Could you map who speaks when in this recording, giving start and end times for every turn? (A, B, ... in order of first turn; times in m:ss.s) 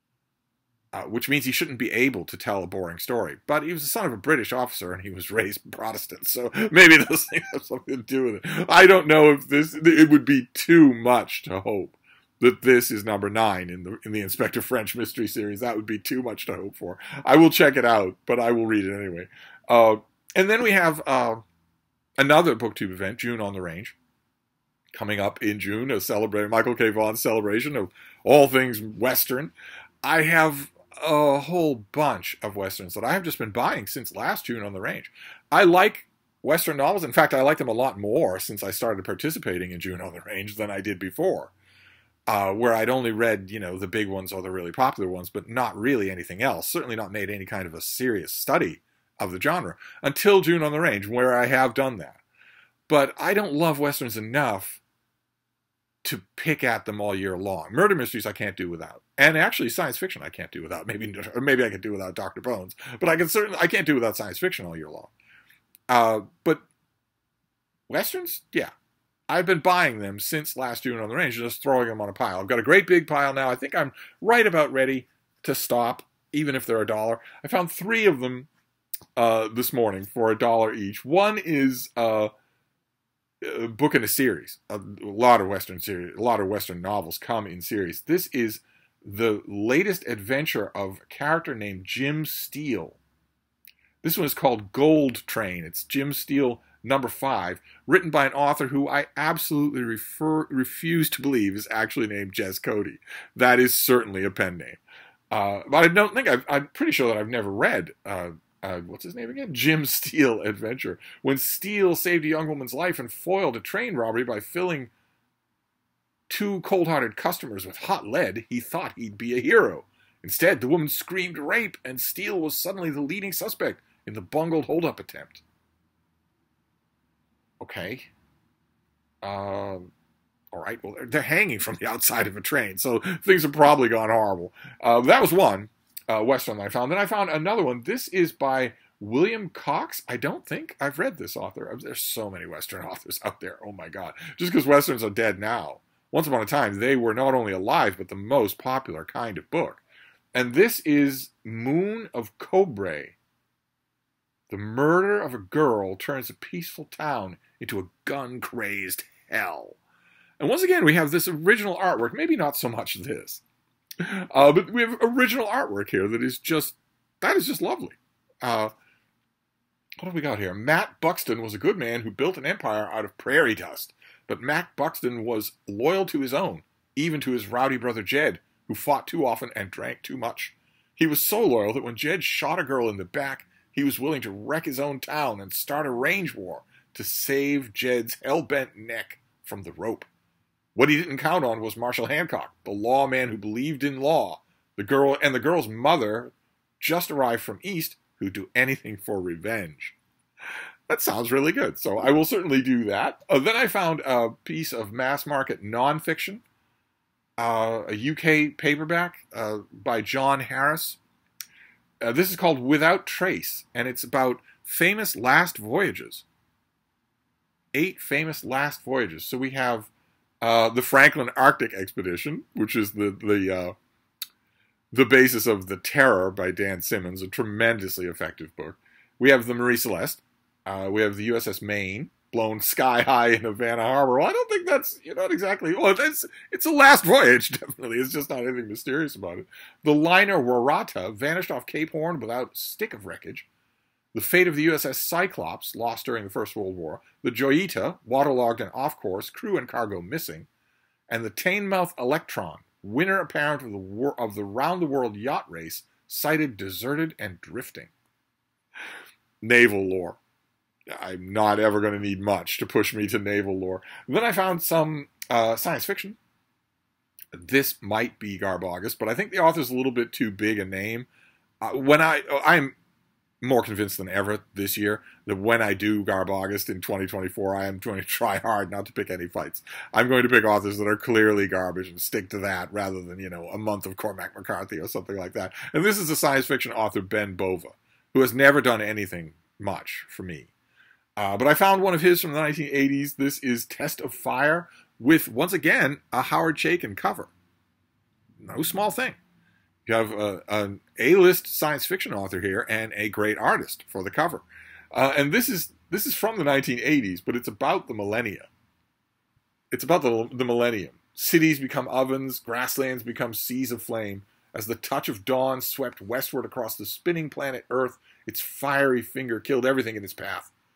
0:00.9-0:21.4 A
0:22.2-0:24.0 A
0:24.9-0:41.5 A
0:42.3-0:52.2 A
0:52.9-0:54.8 A
0:56.0-1:05.1 A
1:05.9-1:06.6 A
1:07.9-1:08.7 A
1:09.3-1:18.5 A
1:19.2-1:22.3 A
1:23.4-1:33.0 A
1:34.0-1:44.8 A
1:45.3-1:54.9 A
1:56.3-2:05.4 A
2:07.6-2:08.1 A
2:09.2-2:09.9 A
2:10.5-2:29.8 A
2:30.3-2:33.2 A
2:34.5-2:39.8 A
2:40.4-2:43.4 A
2:44.0-2:48.7 A
2:50.0-3:10.1 A
3:10.8-3:20.0 A
3:20.9-3:26.4 A
3:27.4-3:31.0 A
3:32.0-3:36.2 A
3:37.7-3:39.9 A
3:40.4-3:43.8 A
3:44.9-4:03.5 A
4:04.1-4:10.5 A
4:11.1-4:17.9 A
4:19.4-4:20.2 A
4:20.9-4:26.2 A
4:27.3-4:31.1 A
4:31.6-4:32.8 A
4:33.4-4:50.5 A
4:51.2-4:57.3 A
4:58.4-4:59.2 A
4:59.9-5:08.5 A
5:09.7-5:20.5 A